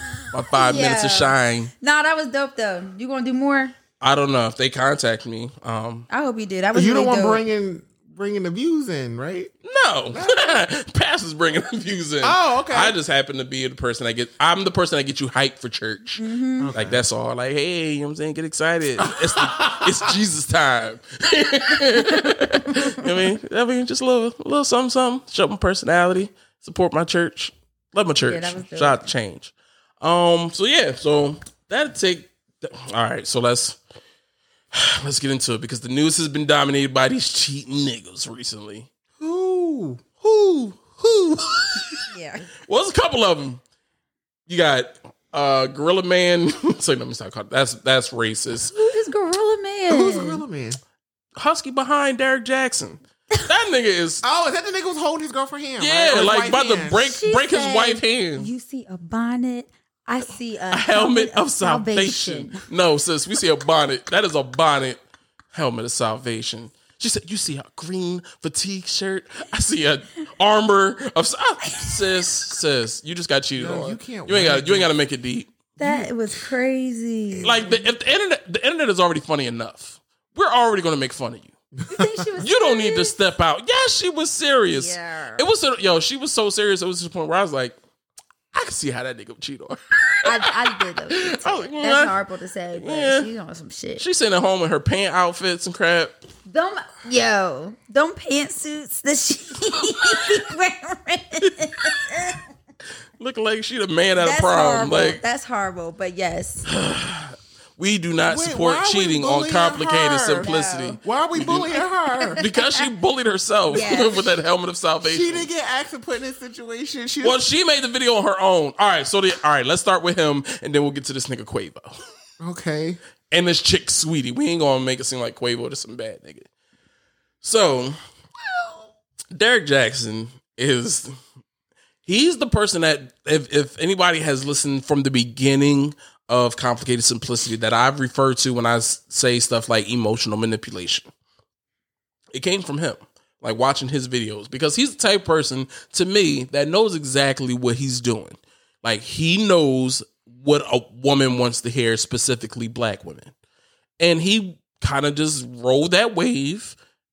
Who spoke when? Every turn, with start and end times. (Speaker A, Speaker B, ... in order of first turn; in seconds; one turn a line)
Speaker A: 0.3-1.7
Speaker B: 0.5-3.7
Speaker A: 4.0-6.1
Speaker B: 6.1-7.4
Speaker C: 6.7-9.5
Speaker A: 9.6-33.8
Speaker C: 10.1-10.6
Speaker C: 12.2-12.9
Speaker B: 16.2-16.7
Speaker C: 16.6-17.0
Speaker C: 19.0-20.1
Speaker B: 28.3-29.1
Speaker A: 34.7-38.9
Speaker C: 39.2-41.8
Speaker A: 41.8-42.0
Speaker B: 42.1-42.5
Speaker A: 42.6-43.6
Speaker A: 44.5-48.7
Speaker B: 48.7-50.4
Speaker C: 49.9-50.8
Speaker A: 51.4-54.2
Speaker C: 54.2-57.0
Speaker A: 55.8-58.5
Speaker B: 56.9-62.6
Speaker A: 60.7-65.0
Speaker A: 65.5-75.5
Speaker C: 73.6-74.9
Speaker B: 75.8-77.8
Speaker C: 75.8-76.1
Speaker C: 77.3-77.7
Speaker A: 77.4-81.5
Speaker C: 81.8-82.2
Speaker B: 81.9-83.2
Speaker A: 82.4-87.8
Speaker B: 84.7-85.5
Speaker A: 88.5-92.2
Speaker B: 90.2-94.0
Speaker A: 92.8-93.3
Speaker A: 94.0-96.2
Speaker B: 96.5-102.4
Speaker A: 103.2-105.2
Speaker B: 104.2-106.7
Speaker A: 106.7-111.7
Speaker C: 108.2-112.4
Speaker B: 110.4-111.0
Speaker B: 112.1-112.8
Speaker A: 112.3-115.5
Speaker B: 113.7-114.3
Speaker C: 115.0-117.4
Speaker A: 117.2-121.9
Speaker C: 122.4-123.0
Speaker A: 123.3-126.5
Speaker A: 127.4-128.0
Speaker A: 129.3-131.1
Speaker A: 132.1-141.1
Speaker A: 142.3-153.3
Speaker A: 154.0-156.8